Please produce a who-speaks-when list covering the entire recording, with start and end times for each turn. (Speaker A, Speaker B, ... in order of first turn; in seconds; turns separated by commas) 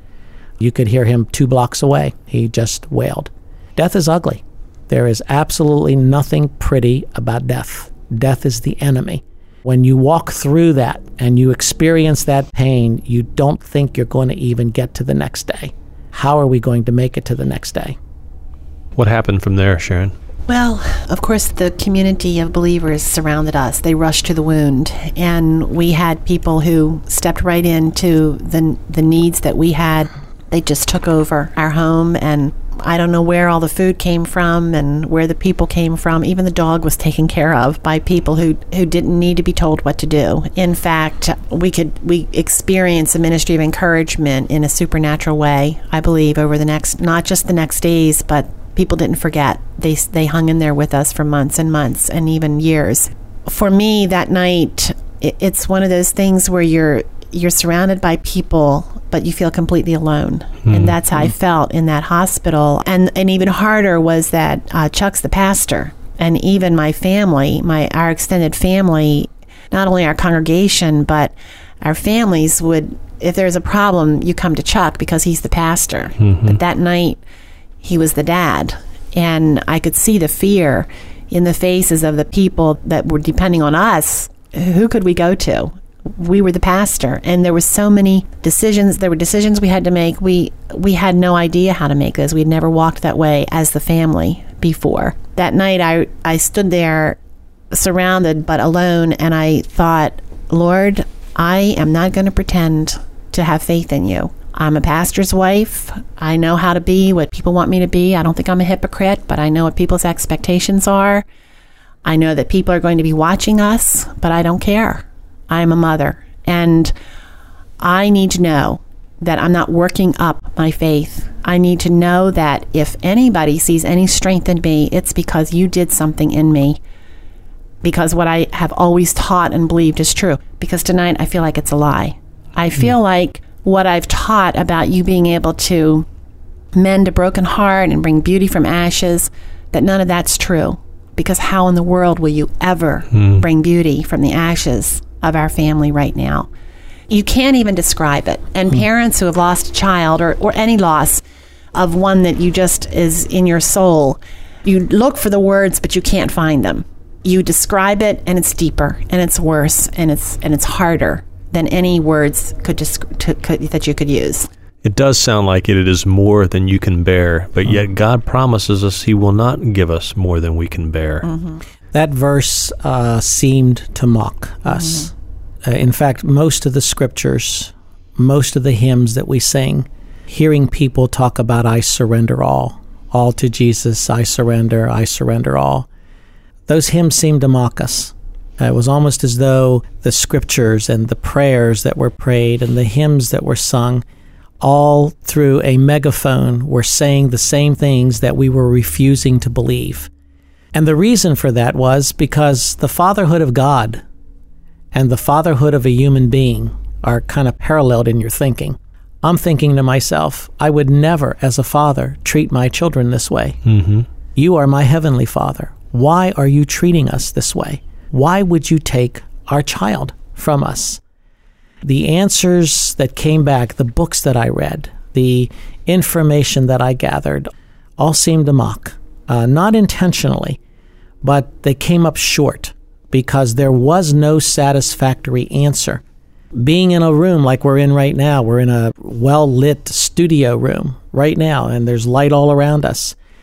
Speaker A: 0.6-18.0, Speaker B: 19.0-20.1, Speaker C: 20.5-77.2, Speaker B: 60.7-61.0, Speaker B: 76.2-76.5, Speaker C: 77.8-97.2, Speaker C: 97.7-111.2, Speaker C: 112.0-116.9, Speaker C: 117.8-126.8, Speaker C: 127.8-136.1, Speaker C: 136.7-146.5, Speaker B: 143.1-143.4, Speaker C: 147.1-151.2, Speaker C: 151.7-164.5, Speaker B: 164.8-171.3, Speaker C: 171.2-171.6, Speaker A: 171.9-175.1, Speaker A: 175.7-185.9, Speaker A: 186.7-194.0, Speaker A: 194.6-200.1, Speaker A: 200.7-204.0, Speaker A: 204.9-213.6, Speaker B: 213.6-214.1, Speaker A: 214.4-221.0, Speaker A: 221.8-230.6, Speaker A: 231.2-236.0, Speaker A: 236.6-243.2